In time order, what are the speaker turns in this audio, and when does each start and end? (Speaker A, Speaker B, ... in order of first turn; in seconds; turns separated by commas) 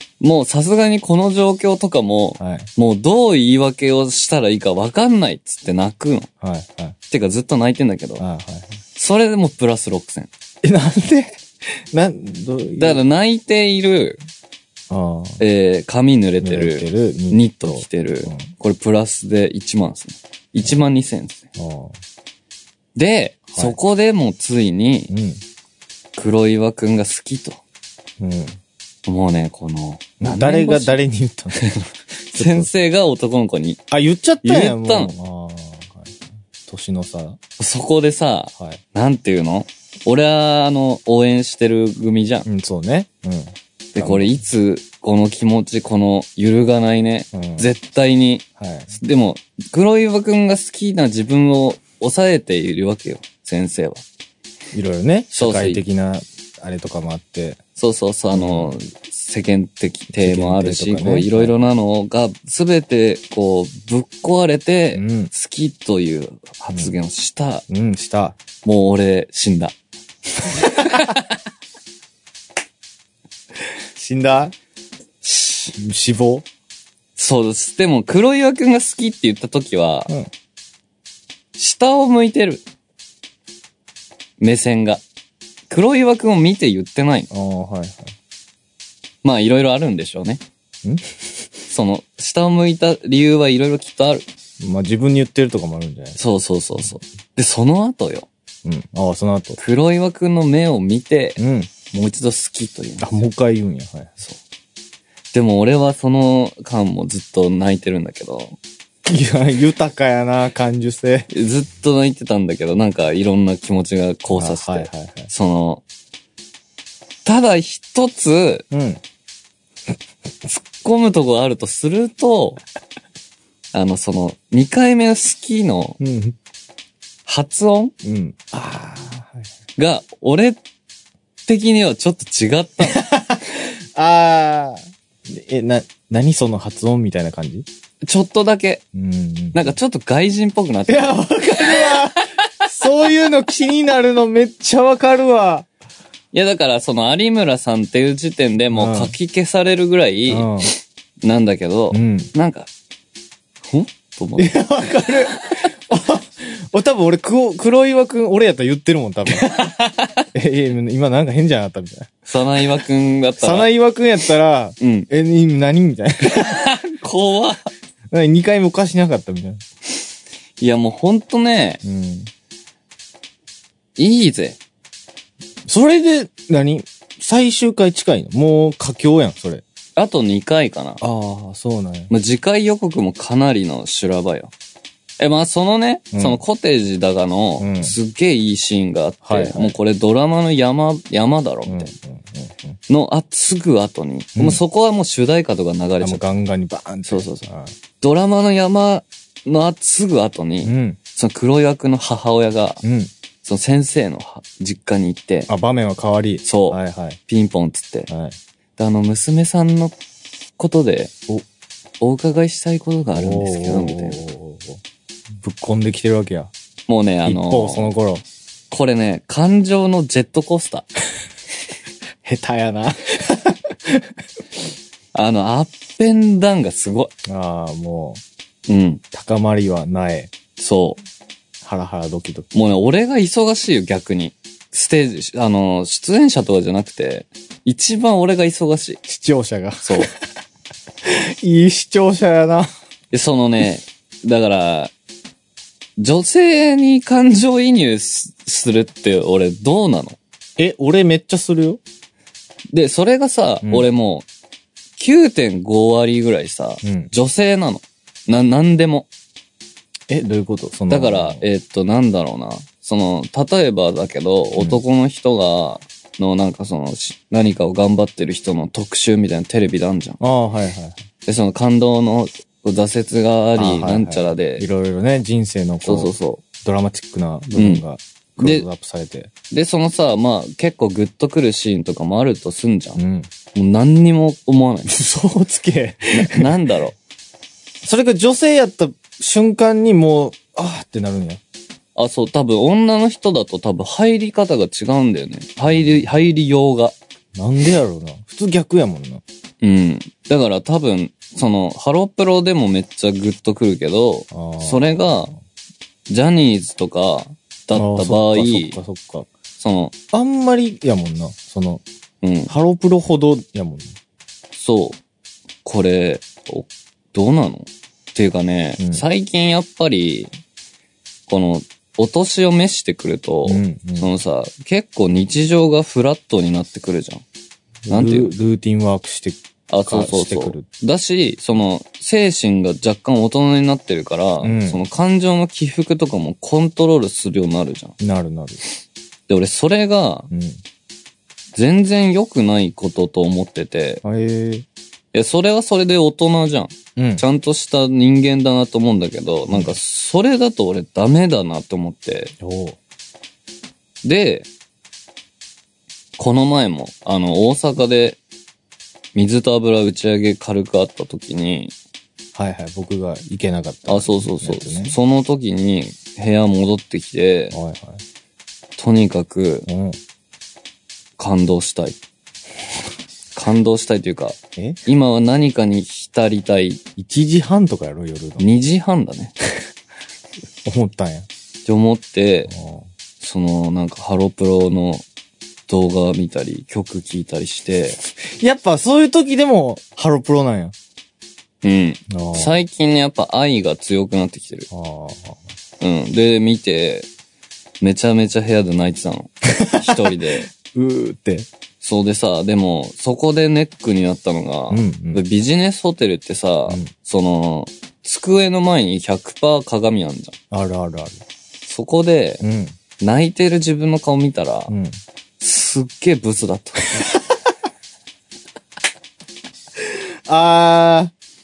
Speaker A: 0.2-6.3, Speaker B: 2.4-2.7, Speaker B: 6.4-7.0, Speaker A: 7.1-8.2, Speaker B: 8.2-8.8, Speaker A: 8.9-10.3, Speaker B: 10.6-11.4, Speaker B: 11.9-13.0, Speaker A: 12.8-14.2, Speaker B: 14.9-15.4, Speaker A: 15.4-21.4, Speaker B: 16.4-18.5, Speaker B: 21.6-21.9, Speaker A: 22.9-25.1, Speaker B: 25.1-25.4, Speaker A: 26.1-27.6, Speaker B: 28.2-28.6, Speaker A: 29.1-31.0, Speaker B: 30.2-31.6, Speaker A: 31.5-33.8, Speaker B: 32.3-32.7, Speaker B: 33.9-37.4, Speaker A: 34.4-35.1, Speaker A: 37.6-42.5, Speaker B: 42.5-44.4, Speaker A: 43.9-54.0, Speaker B: 47.3-47.7, Speaker B: 48.6-48.9, Speaker B: 54.7-57.6, Speaker A: 55.3-55.8, Speaker A: 57.8-67.6, Speaker B: 58.3-58.8, Speaker B: 60.1-61.5, Speaker B: 64.9-65.3, Speaker B: 67.7-68.4, Speaker A: 68.6-69.7, Speaker A: 70.5-71.3, Speaker B: 74.0-74.5, Speaker A: 75.2-75.7, Speaker B: 75.8-76.5, Speaker A: 77.2-80.1, Speaker A: 81.5-82.6, Speaker A: 84.4-85.0, Speaker A: 85.7-87.3, Speaker B: 87.3-88.1, Speaker A: 89.2-90.4, Speaker B: 90.8-91.1, Speaker A: 91.7-94.2, Speaker B: 94.6-96.2, Speaker A: 96.2-98.3, Speaker B: 98.6-99.6, Speaker A: 99.6-103.2, Speaker B: 101.4-101.7, Speaker B: 103.0-104.1, Speaker A: 105.3-108.6, Speaker B: 109.0-111.3, Speaker A: 111.3-115.8, Speaker B: 114.3-115.3, Speaker A: 117.2-118.6, Speaker B: 118.7-119.0, Speaker A: 120.5-122.6, Speaker A: 123.7-126.0, Speaker B: 126.0-126.3, Speaker A: 127.2-127.9, Speaker B: 128.0-129.4, Speaker A: 129.8-130.6, Speaker A: 131.5-133.0, Speaker B: 132.8-137.7, Speaker A: 138.0-138.8, Speaker B: 138.9-139.8, Speaker A: 139.5-142.2, Speaker B: 140.9-145.7, Speaker A: 146.3-150.5, Speaker B: 148.7-149.1, Speaker B: 150.3-150.7, Speaker A: 151.2-152.7, Speaker B: 151.9-152.3, Speaker A: 153.6-155.6, Speaker B: 154.4-159.6, Speaker A: 159.3-160.2, Speaker B: 160.3-162.1, Speaker A: 162.3-163.7, Speaker B: 163.4-166.7, Speaker A: 164.8-165.1, Speaker A: 166.2-167.7, Speaker B: 168.1-169.6, Speaker A: 170.6-171.8, Speaker B: 171.8-172.3, Speaker A: 174.0-174.6, Speaker B: 175.7-179.6, Speaker A: 179.9-181.0, Speaker B: 181.0-182.1, Speaker A: 182.1-184.5, Speaker A: 185.2-191.9, Speaker B: 186.1-186.4, Speaker B: 187.6-187.9, Speaker B: 189.2-189.7, Speaker B: 191.7-192.8, Speaker A: 192.9-196.2, Speaker B: 194.3-194.6, Speaker B: 196.0-197.7, Speaker A: 197.1-197.4, Speaker A: 198.0-202.8, Speaker B: 200.6-201.0, Speaker B: 202.8-203.1, Speaker A: 203.4-205.5, Speaker B: 205.5-207.2, Speaker A: 206.4-208.1, Speaker B: 208.1-208.3, Speaker A: 208.8-209.9, Speaker A: 210.6-211.1, Speaker A: 212.0-214.2, Speaker B: 213.1-214.8, Speaker B: 215.4-216.5, Speaker A: 216.9-217.9, Speaker B: 217.2-218.2, Speaker A: 218.7-220.9, Speaker B: 222.2-224.1, Speaker A: 225.1-227.1, Speaker B: 227.2-228.2, Speaker A: 228.7-229.0, Speaker B: 229.1-230.3, Speaker A: 230.6-231.0, Speaker B: 231.6-232.5, Speaker A: 232.5-239.0, Speaker B: 239.1-240.1, Speaker A: 239.8-240.1, Speaker B: 241.1-242.7, Speaker A: 243.1-244.9, Speaker A: 246.0-250.2, Speaker B: 250.6-251.8, Speaker A: 252.7-254.2, Speaker A: 255.0-259.1, Speaker B: 256.8-257.1, Speaker B: 260.1-261.4, Speaker A: 260.9-270.2, Speaker B: 270.2-271.0, Speaker A: 271.2-274.6, Speaker B: 273.6-276.1, Speaker A: 275.8-276.4, Speaker B: 276.6-279.3, Speaker A: 277.5-277.8, Speaker A: 278.4-278.6, Speaker A: 279.5-283.0, Speaker B: 283.0-283.3, Speaker A: 283.5-284.9, Speaker B: 284.9-286.5, Speaker A: 286.1-287.0, Speaker B: 287.8-291.4, Speaker A: 291.9-296.9, Speaker B: 295.7-296.0, Speaker B: 297.3-299.2, Speaker A: 299.6-305.3, Speaker B: 304.3-305.3, Speaker A: 306.1-308.8, Speaker B: 307.7-309.3, Speaker A: 309.6-309.9, Speaker B: 310.1-311.8, Speaker A: 312.2-312.5, Speaker B: 312.5-313.9, Speaker A: 314.5-315.0, Speaker A: 315.6-320.3, Speaker B: 318.8-319.0, Speaker A: 321.3-327.2, Speaker B: 323.4-324.1, Speaker B: 327.9-330.6, Speaker A: 327.9-328.3, Speaker A: 329.7-337.9, Speaker B: 334.4-334.8, Speaker B: 338.0-338.6, Speaker A: 339.3-340.3, Speaker B: 340.3-340.6, Speaker A: 341.5-344.0, Speaker B: 344.0-344.6, Speaker A: 345.1-352.3, Speaker B: 346.9-347.2, Speaker B: 349.5-349.8, Speaker B: 352.4-352.8, Speaker A: 354.0-354.5, Speaker A: 356.2-358.2, Speaker A: 359.1-361.7, Speaker B: 362.3-364.9, Speaker A: 363.9-367.6, Speaker B: 367.5-368.0, Speaker A: 368.8-369.7, Speaker B: 369.7-370.0, Speaker A: 371.2-372.0, Speaker A: 373.3-376.8, Speaker B: 377.0-378.4, Speaker A: 378.4-379.3, Speaker B: 380.6-381.3, Speaker A: 381.6-382.5, Speaker B: 382.5-382.9, Speaker A: 383.2-385.0, Speaker A: 385.7-388.0, Speaker B: 388.2-390.7, Speaker A: 391.6-394.7, Speaker B: 392.1-392.6, Speaker B: 394.7-395.4, Speaker A: 395.8-397.1, Speaker A: 397.8-400.5, Speaker B: 399.5-401.5, Speaker A: 401.8-410.3, Speaker B: 404.7-405.2, Speaker B: 410.5-411.2, Speaker A: 411.6-412.4, Speaker B: 412.4-412.7, Speaker A: 413.0-414.7, Speaker B: 414.7-415.0, Speaker A: 415.4-417.1, Speaker B: 417.0-417.4, Speaker B: 419.9-421.1